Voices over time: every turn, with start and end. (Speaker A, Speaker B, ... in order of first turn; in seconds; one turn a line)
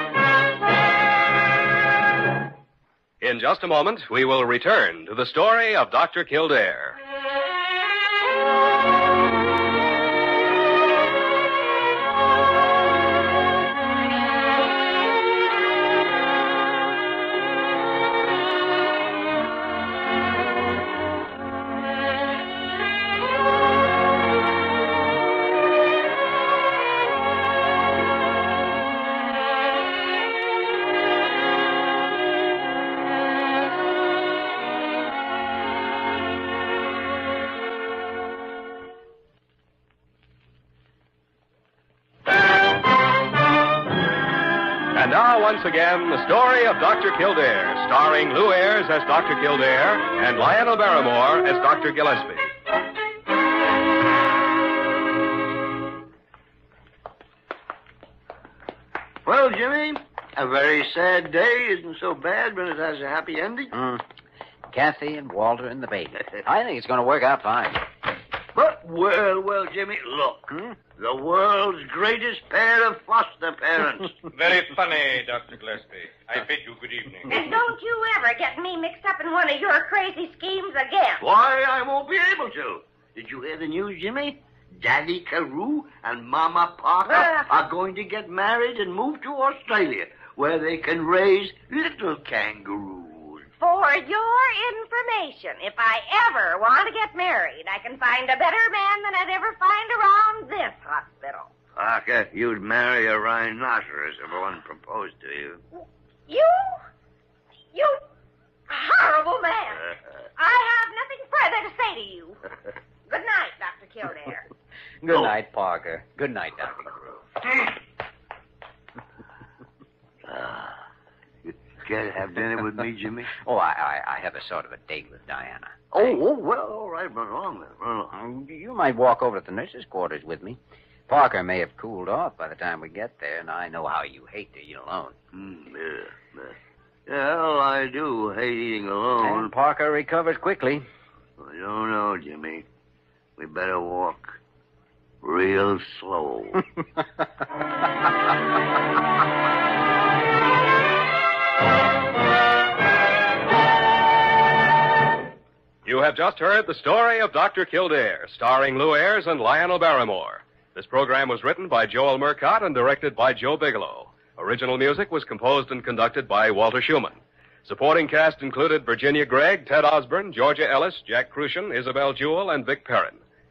Speaker A: 3.2-7.0
Speaker A: 44.9-52.5
Speaker B: 59.2-63.7
Speaker C: 63.7-64.0
Speaker C: 64.7-67.8
Speaker B: 68.5-74.2
Speaker C: 70.5-70.8
Speaker D: 74.3-77.5
Speaker E: 77.2-81.2
Speaker B: 81.2-93.5
Speaker E: 87.0-87.5
Speaker E: 93.6-101.5
Speaker B: 101.8-105.6
Speaker E: 105.8-106.8
Speaker E: 107.7-108.0
Speaker E: 108.7-112.4
Speaker E: 113.1-114.5
Speaker C: 115.0-117.2
Speaker B: 120.2-120.8
Speaker B: 121.4-123.3
Speaker C: 123.4-126.2
Speaker B: 125.9-128.1
Speaker C: 128.1-135.2
Speaker B: 135.3-136.6
Speaker B: 137.1-139.5
Speaker C: 139.2-140.8
Speaker B: 141.4-142.7
Speaker B: 143.4-144.4
Speaker B: 145.2-146.7
Speaker A: 155.8-173.2